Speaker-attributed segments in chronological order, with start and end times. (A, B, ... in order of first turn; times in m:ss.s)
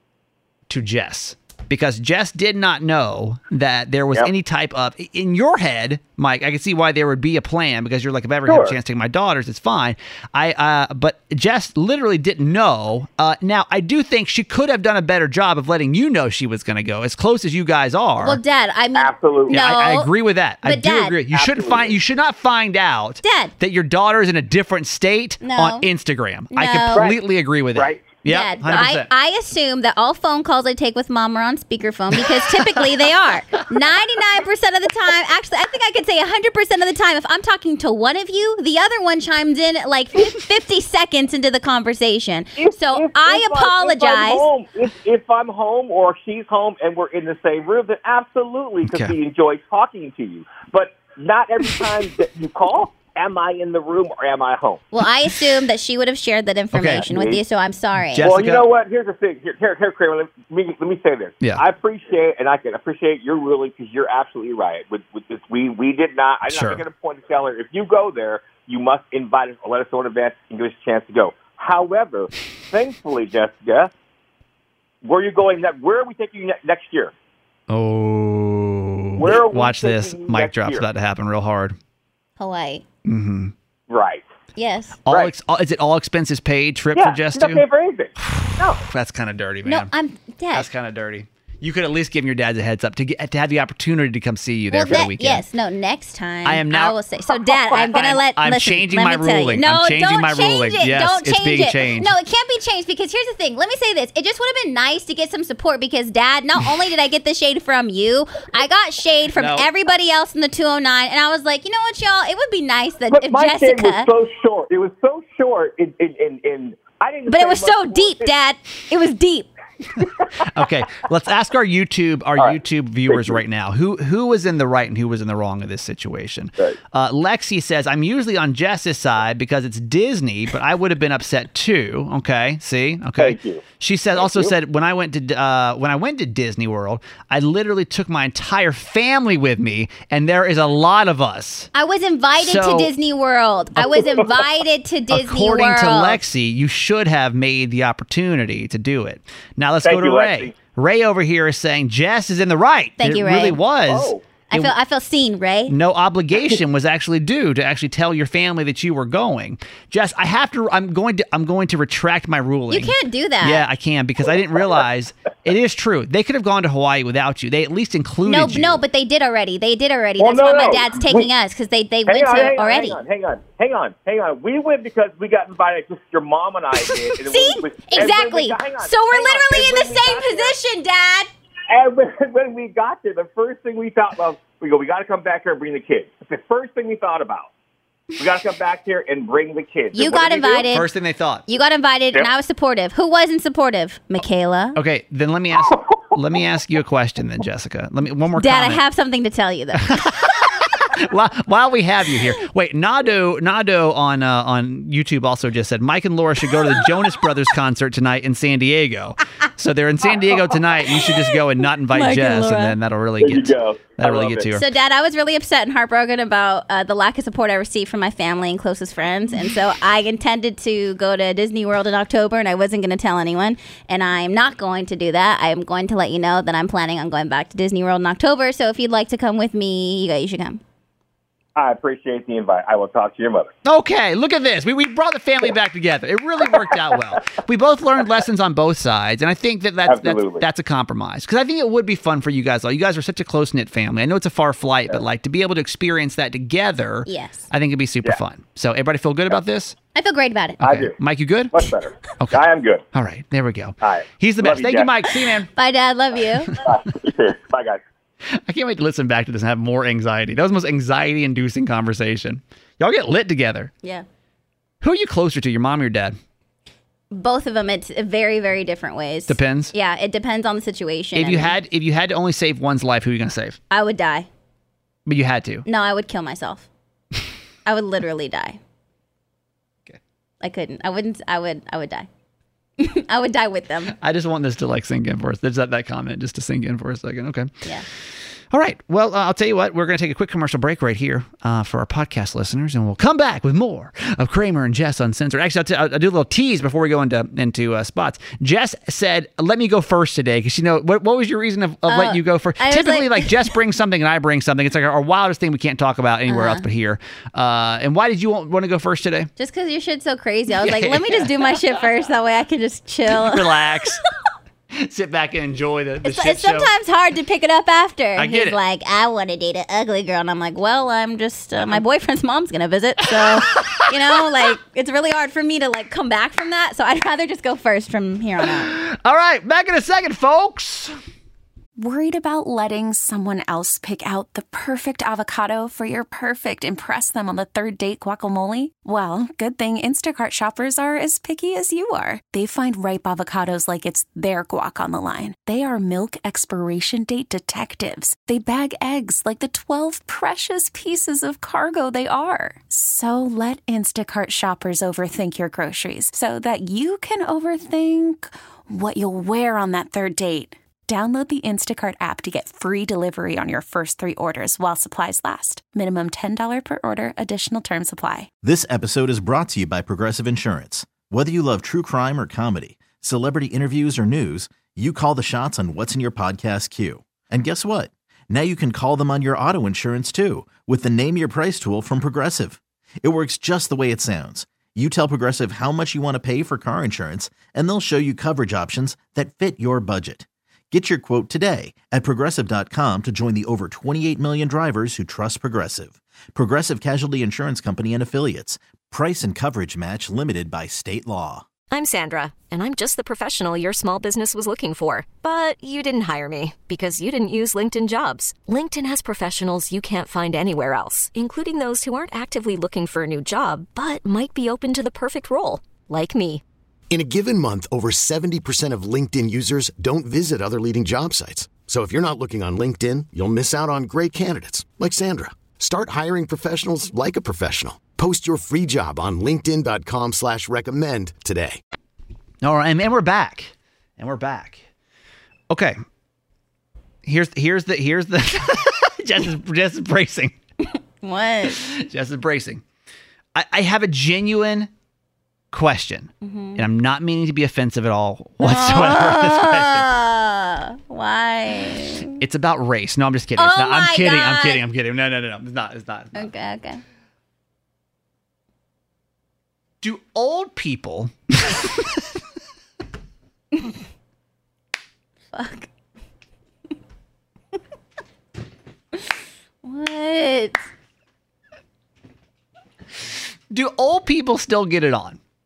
0:00.7-0:18.4 A
0:08.4-0:08.8 B
0:18.2-0:20.1 C
0:19.0-0:19.6 B
0:19.5-0:29.1 A
0:20.6-0:21.2 C
0:21.3-0:22.0 B
0:23.2-0:23.5 C
0:25.4-0:25.9 C
0:26.5-0:27.1 C
0:27.7-0:28.0 B
0:28.2-0:44.5 C
0:42.6-0:54.8 B
0:48.8-0:49.1 A
0:54.9-0:58.3 C
0:56.7-0:57.0 A
0:57.0-0:57.4 B
0:58.1-0:58.6 A
0:58.2-1:13.9 B
1:06.5-1:06.8 A
1:15.0-1:17.1 B
1:17.7-1:21.8 A
1:19.2-1:20.8 B
1:22.4-1:22.8 C
1:23.0-1:23.5 A
1:23.9-1:24.2 B
1:24.6-1:25.0 C
1:25.0-1:27.6 A
1:27.0-1:28.8 B
1:28.2-1:29.9 A
1:29.6-1:30.7 C
1:30.5-1:35.4 A
1:34.7-1:54.1 C
1:36.4-1:37.0 A
1:37.3-1:38.0 B
1:37.7-1:42.1 A
1:49.4-1:49.7 A
1:53.1-1:58.3 B
1:57.3-1:59.5 C
2:00.0-2:00.4 B
2:00.4-2:21.7 A
2:02.4-2:03.4 B
2:13.2-2:13.6 B
2:14.2-2:14.5 B
2:21.7-2:26.2 C
2:22.4-2:22.9 A
2:23.8-2:24.1 B
2:25.1-2:34.7 A
2:29.8-2:30.5 B
2:33.0-2:33.6 C
2:33.9-2:34.2 B
2:34.5-2:35.7 C
2:35.7-2:48.8 A
2:42.7-2:43.6 C
2:48.2-2:53.0 C
2:50.2-2:51.3 B
2:52.1-3:00.6 B
2:57.2-3:01.3 C
3:01.7-3:07.5 B
3:08.2-3:10.7 B
3:09.9-3:10.9 C
3:10.7-3:11.4 A
3:11.5-3:14.8 C
3:14.7-3:18.8 A
3:18.3-3:20.0 C
3:19.8-3:34.7 A
3:31.9-3:32.8 C
3:33.2-3:34.5 B
3:34.5-3:50.6 C
3:51.6-3:53.5 B
3:53.6-4:09.8 A
3:59.8-4:00.4 B
4:07.0-4:07.5 C
4:09.9-4:10.6 C
4:10.6-4:15.5 A
4:10.6-4:10.9 B
4:11.5-4:12.8 B
4:13.8-4:14.9 B
4:15.5-4:16.5 C
4:16.6-4:17.8 B
4:18.5-4:23.7 A
4:24.8-4:26.2 A
4:27.1-4:31.5 C
4:29.3-4:29.7 A
4:31.1-4:33.6 A
4:33.7-4:34.3 C
4:35.0-4:35.6 A
4:35.6-4:36.6 C
4:37.6-4:38.6 C
4:40.4-4:42.1 C
4:42.8-4:43.9 C
4:43.9-4:47.5 A
4:48.5-5:09.3 A
5:01.9-5:03.3 C
5:06.3-5:06.6 C
5:09.4-5:13.6 C
5:10.6-5:11.6 A
5:13.1-5:14.0 A
5:14.7-5:16.7 A
5:16.0-5:28.7 C
5:18.2-5:18.6 A
5:23.2-5:24.4 A
5:28.4-5:30.9 A
5:31.8-6:08.3 D
6:08.4-6:41.4 E
6:41.7-6:56.4 F
6:56.9-7:11.6 G
7:12.4-7:14.6 A
7:15.5-7:15.8 A
7:17.0-7:20.3 A
7:21.0-7:21.6 C
7:21.4-7:22.6 A
7:23.3-7:24.7 A
7:25.5-7:29.9 A
7:26.2-7:26.6 C
7:28.4-7:32.2 C
7:32.2-7:36.3 A
7:33.4-7:34.6 C
7:36.1-7:36.8 C
7:39.8-7:42.0 A
7:45.3-7:45.7 C
7:49.6-7:50.6 C
7:53.5-7:55.2 A